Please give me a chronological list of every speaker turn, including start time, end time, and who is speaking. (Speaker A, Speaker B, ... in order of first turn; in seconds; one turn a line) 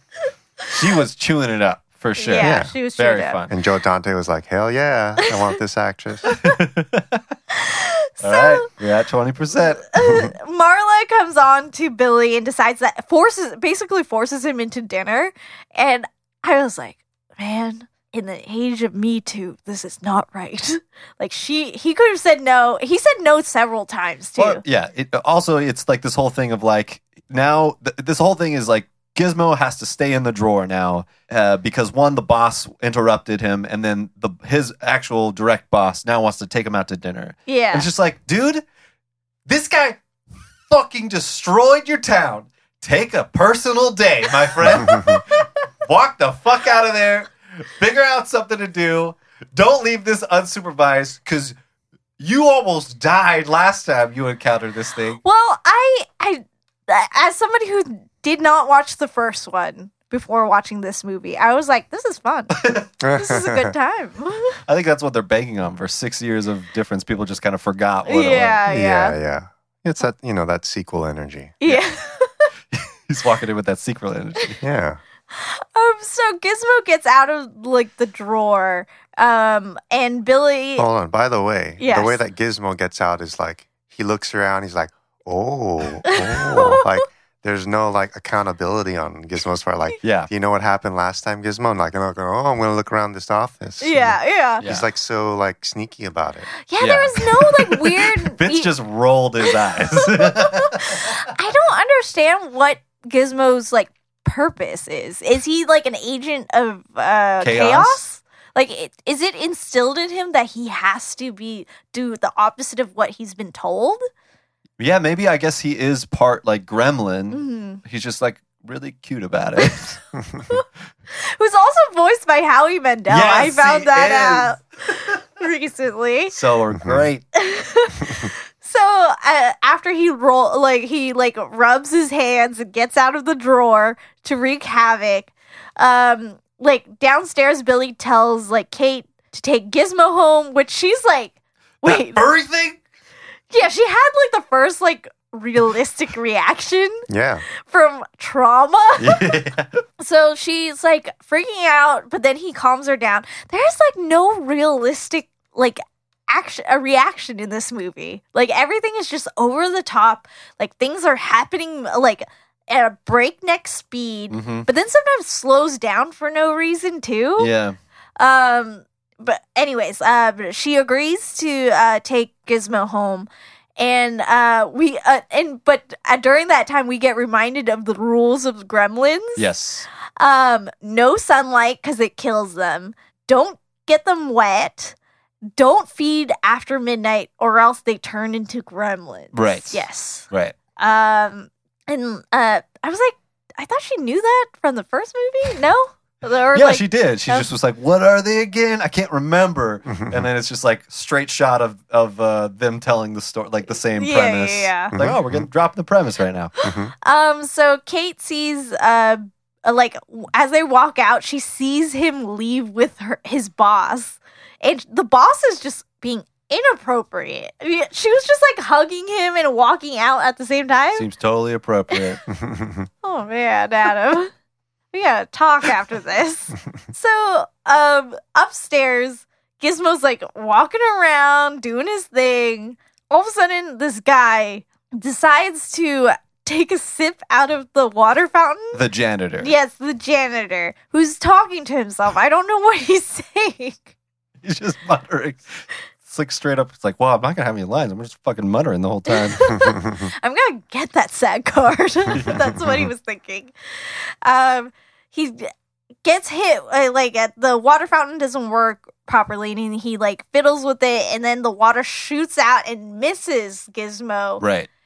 Speaker A: 0.7-3.6
Speaker B: 2.2-3.4
Speaker C: 2.4-2.7
Speaker C: 3.5-6.4
Speaker A: 6.4-7.2
Speaker B: 7.5-8.7
Speaker A: 8.2-9.8
Speaker B: 9.9-24.6
Speaker A: 24.4-38.6
Speaker B: 37.5-37.9
Speaker A: 39.5-40.0
Speaker A: 40.7-51.5
Speaker C: 44.8-45.2
Speaker A: 52.2-55.2
Speaker B: 55.2-62.5
Speaker A: 62.5-62.9
Speaker C: 63.0-63.7
Speaker B: 63.1-64.6
Speaker A: 64.7-68.6
Speaker B: 68.1-69.2
Speaker C: 68.7-71.6
Speaker B: 71.6-72.5
Speaker A: 72.7-74.6
Speaker C: 74.6-75.0
Speaker B: 75.3-80.9
Speaker C: 80.8-96.5
Speaker B: 81.8-82.2
Speaker B: 86.1-86.8
Speaker A: 90.0-90.3
Speaker B: 93.8-94.6
Speaker A: 94.6-94.9
Speaker B: 96.6-98.7
Speaker A: 96.8-101.1
Speaker B: 99.5-114.0
Speaker A: 107.4-108.0
Speaker A: 114.8-120.0
Speaker B: 117.3-117.8
Speaker B: 121.2-126.3
Speaker A: 123.1-124.6
Speaker A: 126.3-127.2
Speaker B: 127.3-142.2
Speaker A: 141.8-142.8
Speaker B: 143.5-147.0
Speaker C: 147.1-147.5
Speaker B: 147.6-149.3
Speaker A: 149.0-149.8
Speaker B: 150.0-167.5
Speaker A: 164.3-164.7
Speaker A: 167.4-167.8
Speaker B: 168.2-179.4
Speaker A: 179.4-179.9
Speaker B: 180.2-184.9
Speaker B: 185.6-197.5
Speaker A: 189.3-190.6
Speaker A: 196.5-206.5
Speaker C: 199.9-200.3
Speaker B: 204.0-204.9
Speaker C: 204.9-205.5
Speaker C: 206.6-206.9
Speaker B: 207.0-221.1
Speaker A: 221.0-222.2
Speaker C: 222.3-222.9
Speaker B: 223.0-224.3
Speaker B: 224.9-238.8
Speaker A: 238.7-239.6
Speaker B: 239.4-243.9
Speaker A: 244.4-249.5
Speaker B: 249.3-253.5
Speaker C: 249.6-250.1
Speaker A: 252.1-252.9
Speaker B: 254.2-255.5
Speaker B: 256.0-264.4
Speaker A: 264.4-264.7